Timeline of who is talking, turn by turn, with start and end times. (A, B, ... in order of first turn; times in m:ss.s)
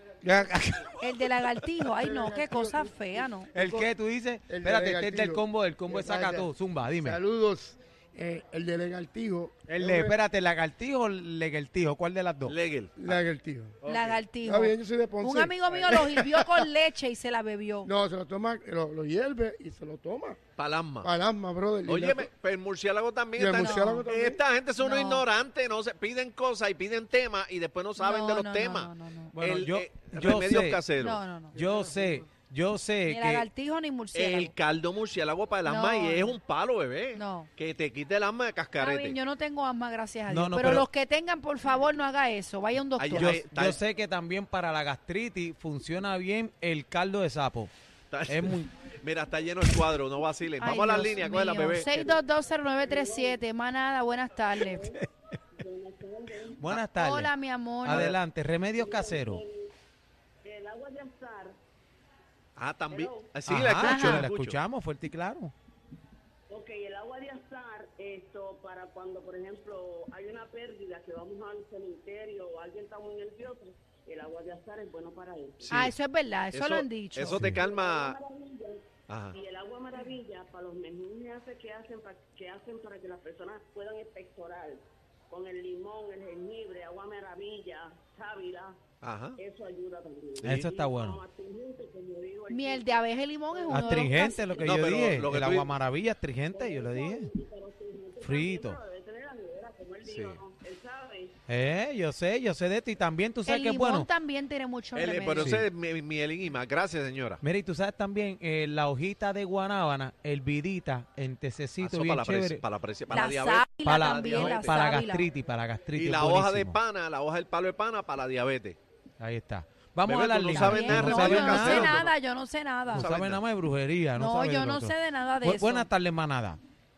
0:00.2-0:01.0 A
0:01.0-0:03.5 B
0:02.0-0:03.9 C
0:03.5-0:07.2 A
0:04.5-0:10.2 C
0:09.7-0:12.6 A
0:12.4-0:13.2 D
0:13.0-0:13.8 C
0:13.8-0:14.2 D
0:13.9-0:17.9 B
0:14.4-0:16.2 C
0:17.8-0:20.4 C
0:20.6-0:21.1 D
0:21.0-0:22.3 C
0:21.9-0:31.9 D
0:23.4-0:24.4 C
0:23.6-0:24.1 B
0:24.8-0:25.3 B
0:28.0-0:29.4 B
0:29.4-0:30.8 A
0:31.0-0:31.6 B
0:31.6-0:33.5 A
0:33.1-0:34.5 B
0:34.1-0:39.2 D
0:35.6-0:36.4 B
0:37.1-0:37.5 B
0:38.8-0:43.4 B
0:40.3-0:40.9 A
0:43.0-0:43.8 D
0:43.1-0:47.7 A
0:48.1-0:52.2 D
0:48.3-0:48.7 A
0:50.6-0:54.9 B
0:52.8-0:53.4 E
0:54.6-0:55.0 E
0:55.5-0:56.7 E
0:56.6-0:57.3 A
0:57.0-0:58.1 B
0:57.8-0:59.4 A
0:57.8-0:58.2 D
0:58.8-0:59.7 E
1:00.4-1:01.6 E
1:02.6-1:04.6 D
1:02.9-1:03.4 E
1:03.5-1:05.5 A
1:03.8-1:04.3 B
1:06.5-1:15.8 E
1:15.6-1:15.9 D
1:15.7-1:17.4 B
1:16.5-1:18.2 D
1:17.3-1:17.6 A
1:17.6-1:34.7 E
1:19.1-1:19.4 D
1:29.0-1:29.4 D
1:30.4-1:31.2 A
1:32.5-1:34.5 B
1:33.7-1:37.3 A
1:34.6-1:35.8 D
1:36.5-1:41.4 E
1:38.2-1:38.8 A
1:40.0-1:40.4 D
1:41.5-1:44.1 A
1:43.5-1:45.6 B
1:44.9-1:47.4 D
1:45.4-1:45.6 A
1:47.4-1:52.6 A
1:51.8-1:54.8 D
1:53.1-1:55.3 B
1:53.8-1:56.8 A
1:55.9-1:58.8 D
1:59.2-2:02.1 A
2:00.0-2:02.1 D
2:00.5-2:03.1 B
2:02.9-2:06.6 A
2:03.0-2:03.4 D
2:04.2-2:05.9 B